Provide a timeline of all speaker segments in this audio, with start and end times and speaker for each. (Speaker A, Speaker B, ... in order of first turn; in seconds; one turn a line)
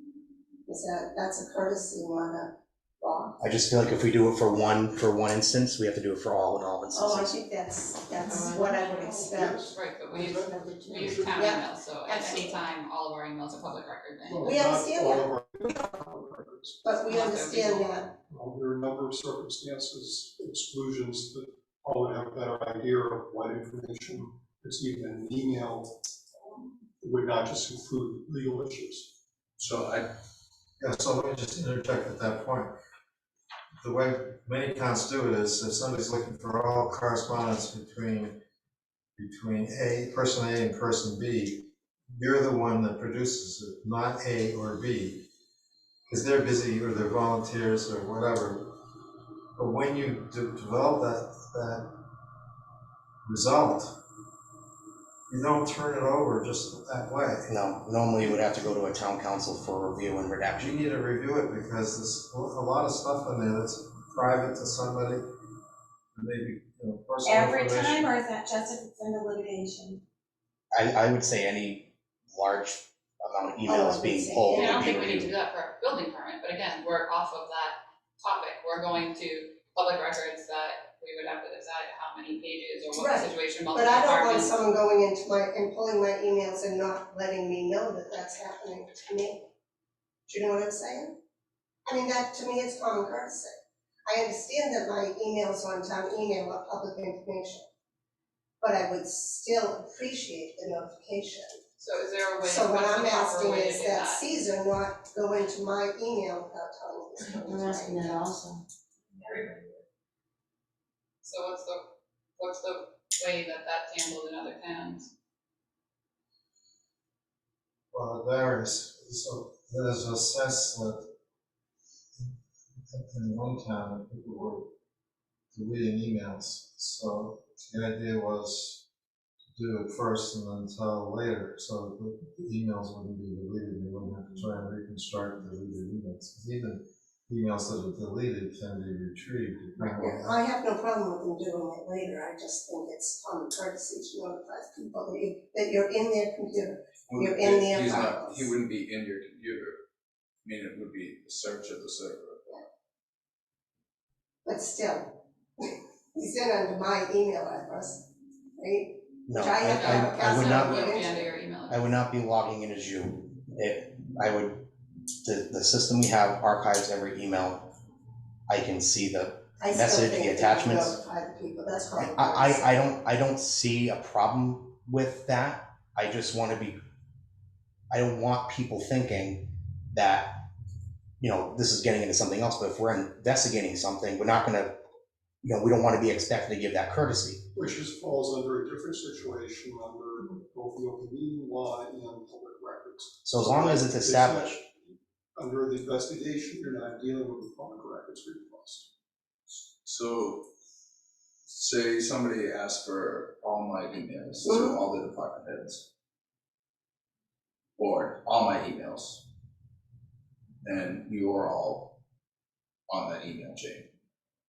Speaker A: 0.7-3.4
Speaker B: 3.4-7.3
Speaker A: 6.9-9.6
Speaker C: 8.3-9.1
Speaker D: 9.2-11.5
Speaker E: 9.7-10.3
Speaker A: 10.2-12.6
Speaker E: 10.9-14.5
Speaker D: 14.2-16.9
Speaker A: 14.4-15.3
Speaker A: 16.8-18.1
Speaker E: 17.1-17.9
Speaker D: 18.3-29.1
Speaker F: 29.6-30.1
Speaker G: 30.8-32.7
Speaker G: 33.8-38.4
Speaker G: 39.2-45.3
Speaker G: 46.1-48.8
Speaker G: 49.6-51.9
Speaker G: 53.2-54.0
Speaker G: 55.3-57.5
Speaker B: 57.5-60.8
Speaker G: 60.6-65.2
Speaker G: 66.2-68.1
Speaker C: 67.2-70.0
Speaker B: 70.7-75.3
Speaker A: 73.7-75.0
Speaker E: 74.5-84.6
Speaker A: 83.0-89.5
Speaker A: 90.3-91.2
Speaker A: 91.9-93.6
Speaker A: 94.1-97.7
Speaker A: 98.6-101.6
Speaker E: 101.8-104.2
Speaker A: 102.4-108.4
Speaker C: 107.5-108.6
Speaker E: 111.2-111.8
Speaker E: 112.4-115.1
Speaker G: 117.9-121.1
Speaker G: 122.9-124.7
Speaker G: 125.5-128.8
Speaker G: 129.6-140.4
Speaker A: 140.0-148.5
Speaker F: 147.1-149.8
Speaker F: 150.4-152.7
Speaker A: 154.4-158.0
Speaker A: 158.6-161.3
Speaker B: 159.3-160.9
Speaker E: 159.7-161.9
Speaker B: 161.7-164.6
Speaker B: 165.2-167.7
Speaker B: 168.5-171.0
Speaker A: 169.6-172.7
Speaker B: 172.0-176.8
Speaker B: 177.9-180.4
Speaker B: 181.2-184.7
Speaker B: 185.4-187.4
Speaker D: 187.6-198.9
Speaker B: 193.2-194.6
Speaker F: 199.8-200.4
Speaker F: 201.5-205.8
Speaker A: 204.4-204.8
Speaker F: 207.8-209.2
Speaker F: 210.6-211.9
Speaker F: 212.9-213.9